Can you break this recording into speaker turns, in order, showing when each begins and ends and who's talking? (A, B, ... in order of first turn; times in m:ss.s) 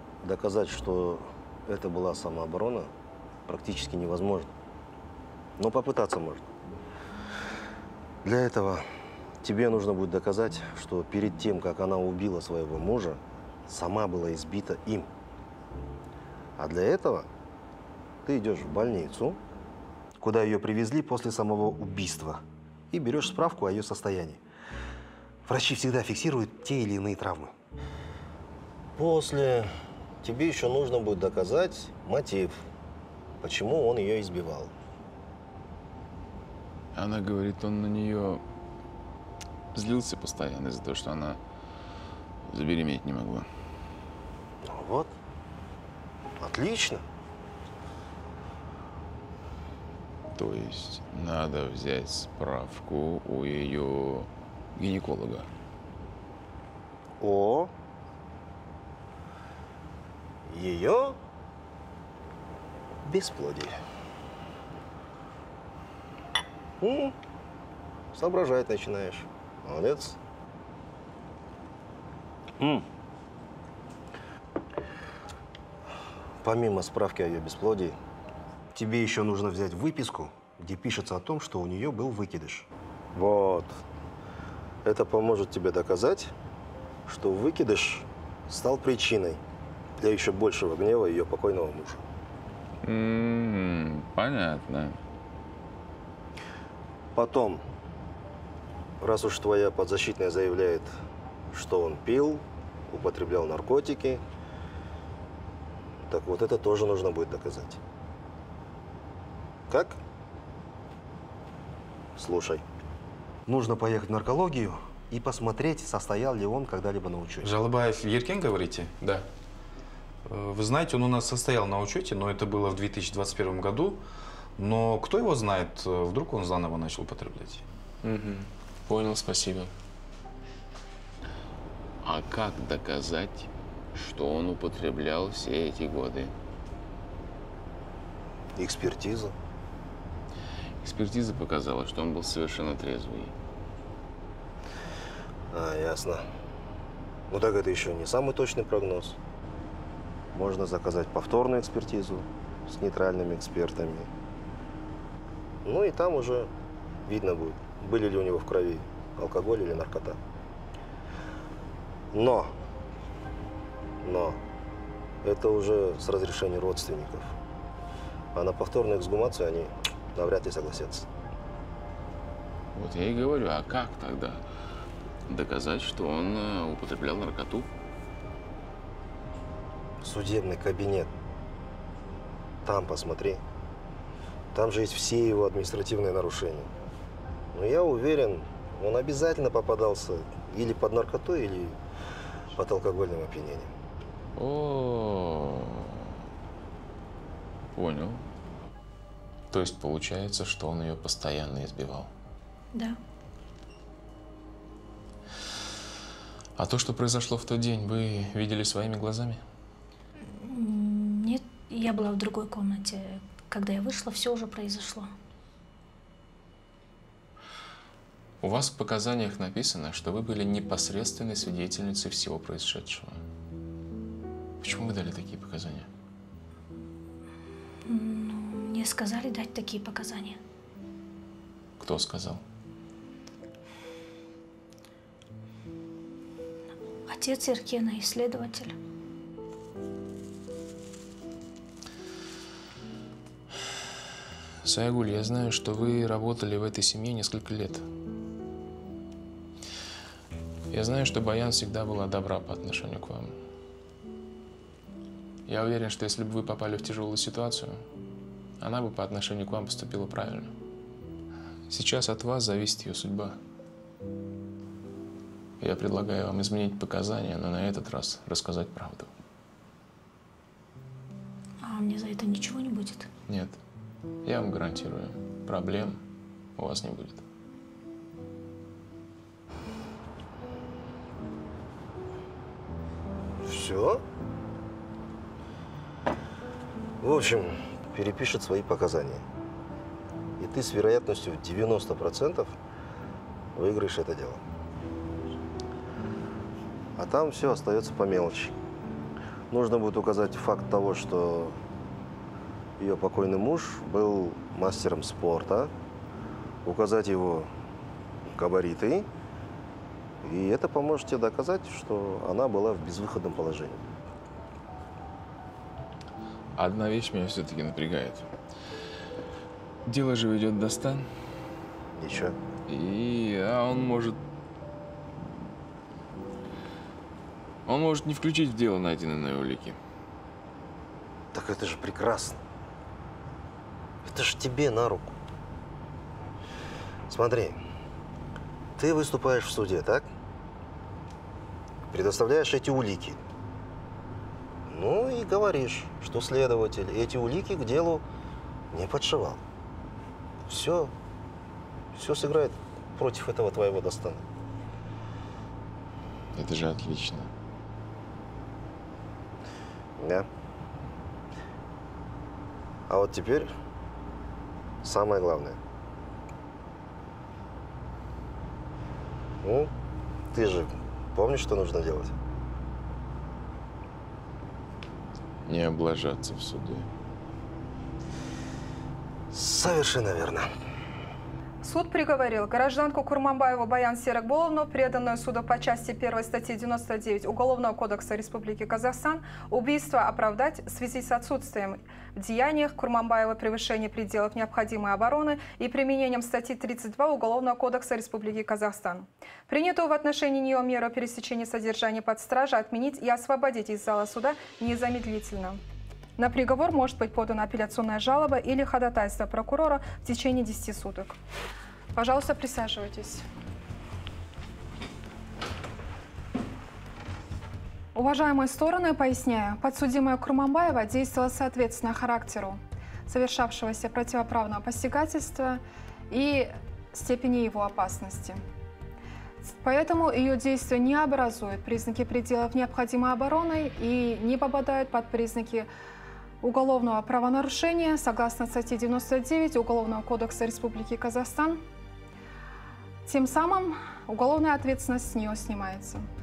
0:00.2-0:02.9 A
0:03.5-0:04.5 A
0:05.6-0:06.4 A
0:08.2-0:08.8 A
0:09.4-0:15.1 A
0:16.6-0:17.3 A
0:18.2-0:19.4 A
0:20.2-0:24.4 A
0:25.4-0:27.5 A
0:29.0-0:29.7 A
0:30.2-0:32.6 A
0:33.4-0:34.7 A
0:36.9-0:38.4 B
0:39.7-0:41.4 B
0:42.4-0:43.5 B
0:44.6-0:45.1 A
0:46.4-0:47.0 A
0:50.3-0:55.5 B
0:57.2-0:57.7 A
1:00.5-1:01.2 A
1:03.0-1:03.8 A
1:06.8-1:07.1 A
1:08.1-1:10.2 A
1:12.6-1:12.8 A
1:16.4-1:18.0 A
1:18.7-1:23.8 A
1:24.8-1:26.3 A
1:27.1-1:29.4 A
1:30.0-1:32.0 A
1:32.8-1:35.0 B
1:37.1-1:37.6 A
1:39.0-1:40.9 A
1:41.5-1:44.2 A
1:46.1-1:47.8 A
1:49.7-1:50.0 A
1:52.2-1:52.6 A
1:53.5-1:57.5 A
1:57.4-1:58.9 C
1:59.0-1:59.2 B
2:00.2-2:04.0 C
2:04.6-2:07.6 C
2:08.0-2:09.7 B
2:12.0-2:16.3 B
2:18.6-2:19.3 A
2:20.8-2:23.3 B
2:25.5-2:26.2 A
2:27.3-2:29.2 A
2:30.3-2:34.1 A
2:35.6-2:36.5 A
2:37.1-2:40.2 A
2:42.1-2:42.5 A
2:44.0-2:44.4 A
2:45.2-2:47.3 A
2:48.3-2:51.1 A
2:52.7-2:54.4 B
2:55.3-2:57.7 B
3:00.0-3:01.1 A
3:02.6-3:03.4 A
3:04.5-3:06.7 A
3:07.5-3:11.8 A
3:12.6-3:13.7 A
3:14.4-3:16.1 B
3:17.7-3:18.2 B
3:19.5-3:22.1 B
3:22.7-3:23.0 D
3:26.6-3:29.4 B
3:30.2-3:35.1 D
3:38.4-3:43.2 B
3:44.6-3:45.9 B
3:47.9-3:50.4 D
3:51.8-3:52.4 B
3:57.1-3:58.8 D
4:04.6-4:07.8 B
4:10.7-4:13.4 B
4:15.4-4:17.8 B
4:18.6-4:20.5 B
4:21.7-4:23.4 B
4:25.6-4:29.1 B
4:31.6-4:33.1 D
4:33.3-4:33.6 B
4:34.2-4:36.0 B
4:36.6-4:37.2 B
4:43.4-4:44.0 A
4:47.0-4:49.2 A
4:50.4-4:52.5 A
4:53.5-4:54.4 A
4:57.0-4:58.6 A
4:59.5-5:01.6 A
5:02.8-5:05.7 A
5:06.6-5:07.5 A
5:08.3-5:09.1 A
5:10.2-5:13.8 A
5:16.6-5:18.3 B
5:19.8-5:21.1 B
5:21.9-5:22.4 A
5:22.7-5:24.2 B
5:27.6-5:29.8 B
5:31.3-5:32.4 A
5:34.0-5:35.2 A
5:37.1-5:37.6 A
5:38.8-5:40.1 A
5:41.9-5:43.2 A
5:44.7-5:48.0 A
5:48.7-5:49.4 A
5:50.5-5:50.9 A
5:51.9-5:54.2 A
5:56.3-5:57.3 B
6:00.0-6:00.3 A
6:02.9-6:03.5 A
6:04.8-6:05.6 A
6:09.4-6:09.7 A
6:10.3-6:12.1 A
6:15.4-6:16.9 B
6:19.3-6:20.5 A
6:21.6-6:45.6 E
6:46.2-6:51.2 E
6:51.9-6:53.2 E
6:57.9-7:08.4 E
7:09.4-7:15.7 E
7:16.4-7:21.6 E
7:23.0-7:26.0 E